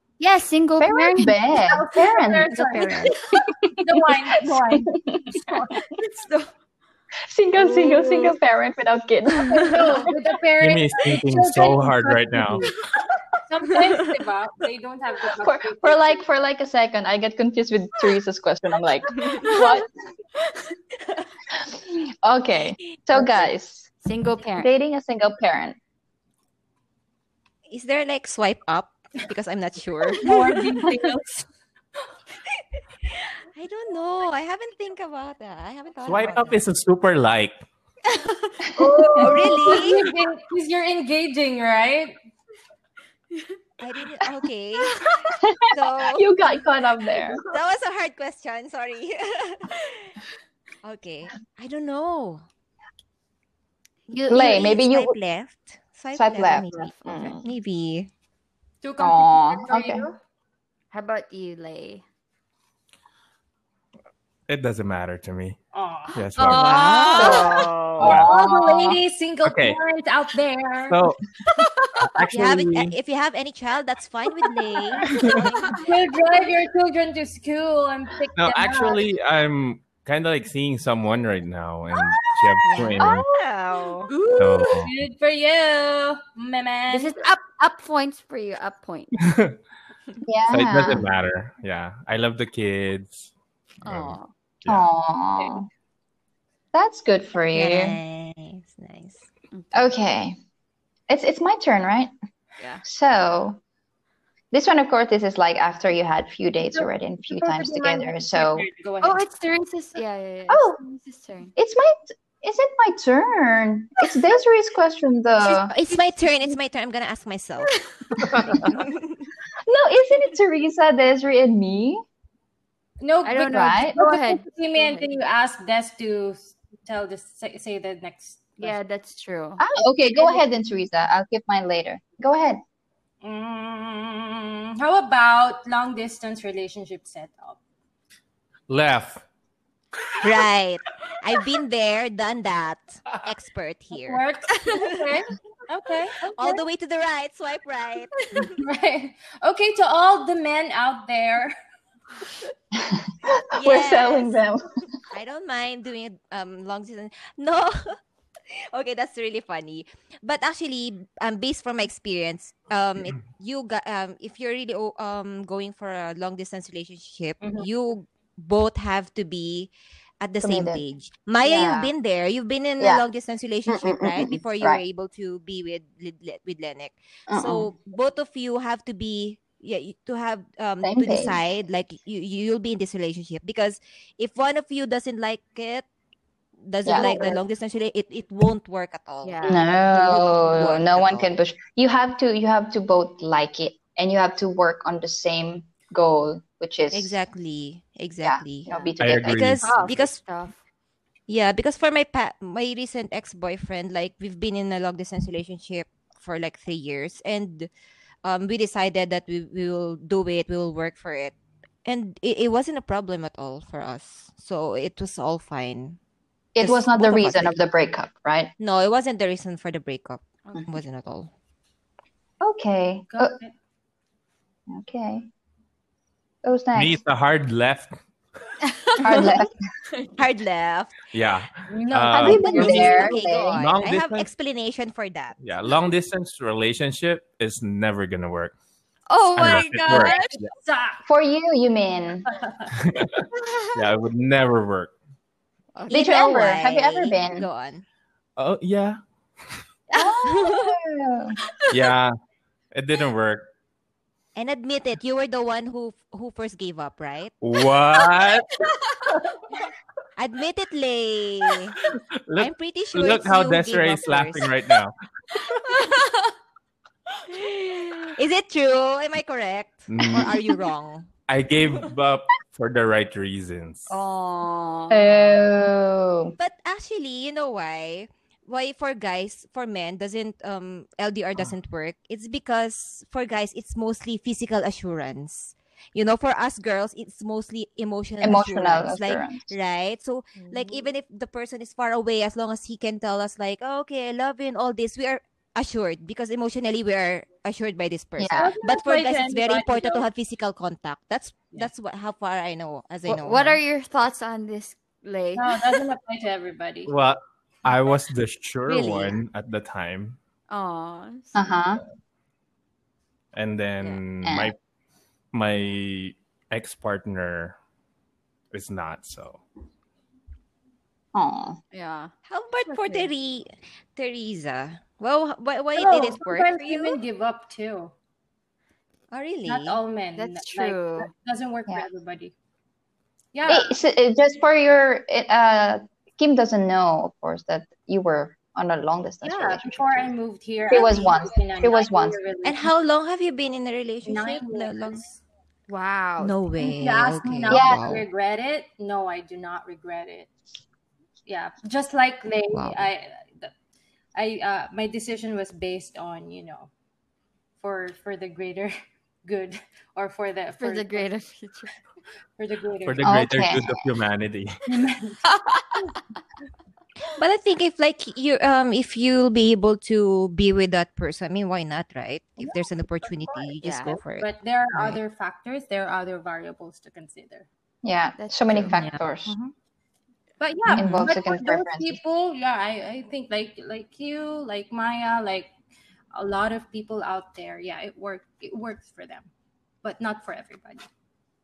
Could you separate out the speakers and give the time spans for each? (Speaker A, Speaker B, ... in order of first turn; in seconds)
Speaker A: 0.2-1.4, 2.5-3.2, 5.9-6.5, 7.6-8.3, 19.3-19.7, 23.1-23.5, 24.0-24.7, 38.1-39.5, 45.0-45.3, 54.2-54.7, 56.7-57.4, 60.9-62.0, 66.3-67.9, 71.5-71.9, 75.3-75.8, 84.1-84.8, 86.9-89.2, 93.9-94.3, 99.5-99.9, 109.0-111.5, 123.2-125.1, 128.6-129.6, 189.2-189.6, 199.6-200.6, 228.7-229.3, 232.4-233.8, 239.1-240.3, 243.4-243.7, 245.8-246.5, 249.9-250.5, 265.7-266.3, 267.3-268.1, 273.9-275.4, 290.4-290.9, 303.1-305.6, 308.7-309.2, 310.5-311.5, 321.7-322.1, 330.2-331.1, 345.7-346.3, 360.6-361.7, 373.6-373.9, 378.2-378.7
Speaker B: 0.8-5.4, 7.2-10.1, 15.4-19.9, 21.6-23.9, 24.5-25.8, 38.7-39.5, 45.2-47.4, 54.3-55.1, 56.1-57.4, 59.0-60.1, 67.1-68.9, 90.2-91.1, 94.7-95.7, 96.7-98.0, 99.7-100.3, 101.1-102.1, 102.8-103.6, 104.5-108.7, 110.5-110.8, 111.5-115.7, 119.7-122.0, 123.5-124.0, 129.6-132.6, 152.7-154.7, 170.4-170.8, 171.4-171.9, 173.7-174.8, 177.3-177.7, 180.8-181.4, 186.9-187.4, 189.4-197.2, 198.2-199.6, 216.6-218.5, 222.4-223.4, 224.7-225.3, 226.4-227.0, 229.0-229.6, 232.1-233.6, 241.1-242.3, 245.9-247.5, 249.9-251.4, 274.9-276.3, 288.2-289.5, 298.2-298.5, 311.3-311.8, 314.2-314.5, 321.1-321.6, 333.4-340.1, 340.7-342.2, 347.5-348.1, 363.0-363.9, 377.8-379.3, 380.7-382.0
Speaker C: 1.5-3.1, 3.8-5.8, 9.6-12.8, 13.4-16.2, 30.2-31.4, 39.2-42.1, 58.8-60.2, 65.7-66.2, 68.0-71.0, 75.8-79.0, 84.7-87.2, 106.7-109.2, 123.0-128.8, 130.1-130.4, 133.2-137.6, 143.9-146.6, 148.4-151.5, 167.4-167.7, 223.1-223.5, 231.7-232.9, 239.6-241.0, 242.3-242.7, 298.4-300.1, 305.4-306.9, 322.7-323.1, 325.8-327.9, 329.4-332.3, 333.3-333.7, 339.2-342.7, 344.1-345.2, 346.6-350.3, 351.3-353.5, 354.1-356.7, 357.6-358.7, 359.2-361.1, 362.4-363.2, 364.7-365.3, 374.2-377.5, 380.4-385.5, 386.1-389.3, 389.8-390.9
Speaker D: 10.6-12.7, 36.0-37.6, 64.5-65.6, 66.1-66.9, 68.0-68.3, 69.4-69.8, 70.9-71.2, 72.0-73.0, 75.2-75.5, 78.4-83.2, 84.4-84.9, 89.2-89.6, 90.5-93.3, 93.8-94.9, 118.2-118.8, 138.7-139.2, 199.0-199.8, 226.7-228.0, 231.1-234.2, 235.4-238.5, 239.3-240.5, 242.7-244.9, 248.4-249.0, 251.7-252.1, 252.7-253.5, 257.4-258.6, 262.3-265.7, 269.9-270.3, 271.3-273.9, 306.9-310.2, 313.3-314.6, 315.3-317.6, 318.5-319.4, 362.8-364.6
Speaker E: 27.7-30.9, 32.8-36.6, 39.1-40.0, 43.8-45.0, 45.7-46.3, 47.4-50.1, 50.8-52.4, 54.1-58.1, 66.4-67.7, 72.3-75.7, 82.6-84.1, 97.5-99.3, 115.4-117.7, 118.7-119.3, 140.2-145.1, 146.3-148.6, 153.5-154.3, 155.1-158.0, 158.7-185.9, 186.6-191.4, 196.9-198.7, 199.2-200.2, 201.3-207.7, 208.2-211.3, 211.8-216.0, 216.6-217.6, 218.6-221.3, 230.2-230.9, 232.3-235.4, 245.9-247.8, 254.3-257.4, 260.2-261.8, 262.4-264.5, 268.1-271.1, 276.4-303.6, 322.3-327.0, 329.1-329.8, 342.4-345.1, 346.2-348.0, 352.5-352.9, 367.1-375.0, 378.7-379.0, 380.7-381.1